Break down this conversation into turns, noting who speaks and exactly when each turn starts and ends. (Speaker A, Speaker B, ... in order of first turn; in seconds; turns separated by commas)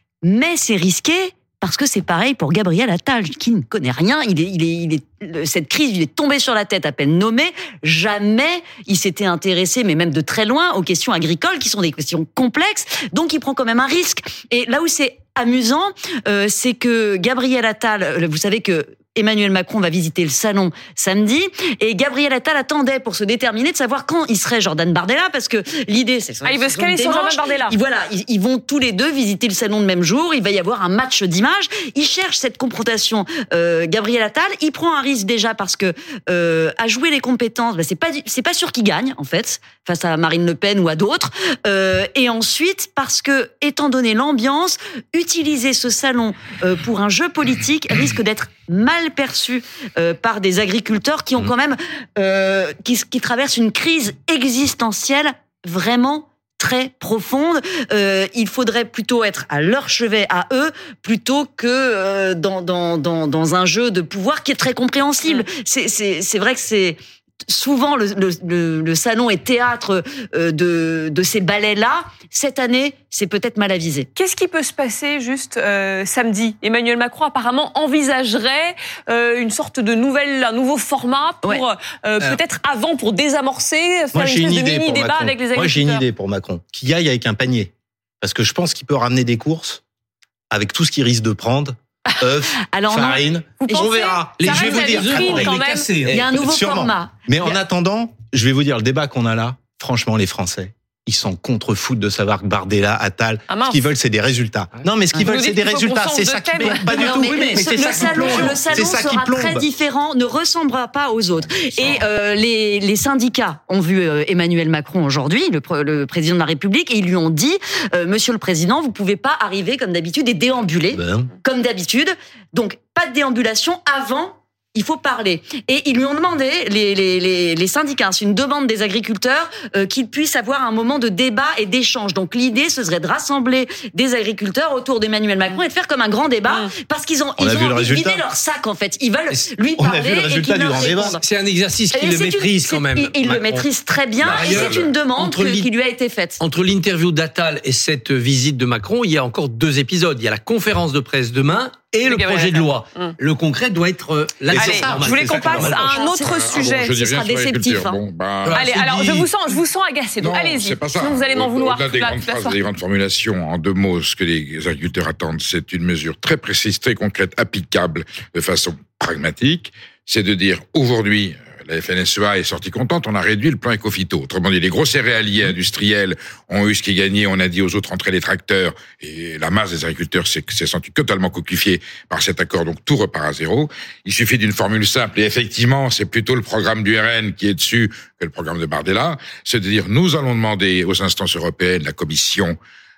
Speaker A: 0.2-74.1, Speaker B: 26.4-27.7, Speaker B: 74.1-86.0, Speaker C: 84.1-89.8, Speaker C: 90.5-95.5, Speaker A: 92.6-93.8, Speaker B: 93.6-95.9, Speaker D: 94.4-96.3, Speaker A: 96.0-97.5, Speaker C: 96.1-109.7, Speaker B: 103.5-103.8, Speaker B: 105.2-107.6, Speaker A: 106.8-141.2, Speaker C: 120.9-121.3, Speaker C: 137.4-138.2, Speaker C: 139.7-141.2, Speaker D: 141.2-145.7, Speaker A: 141.9-146.4, Speaker D: 146.4-155.9, Speaker B: 152.1-153.1, Speaker C: 154.5-155.9, Speaker B: 154.5-156.9, Speaker A: 155.7-158.0, Speaker E: 156.2-158.6, Speaker D: 158.4-159.3, Speaker B: 158.5-162.6, Speaker E: 160.2-192.6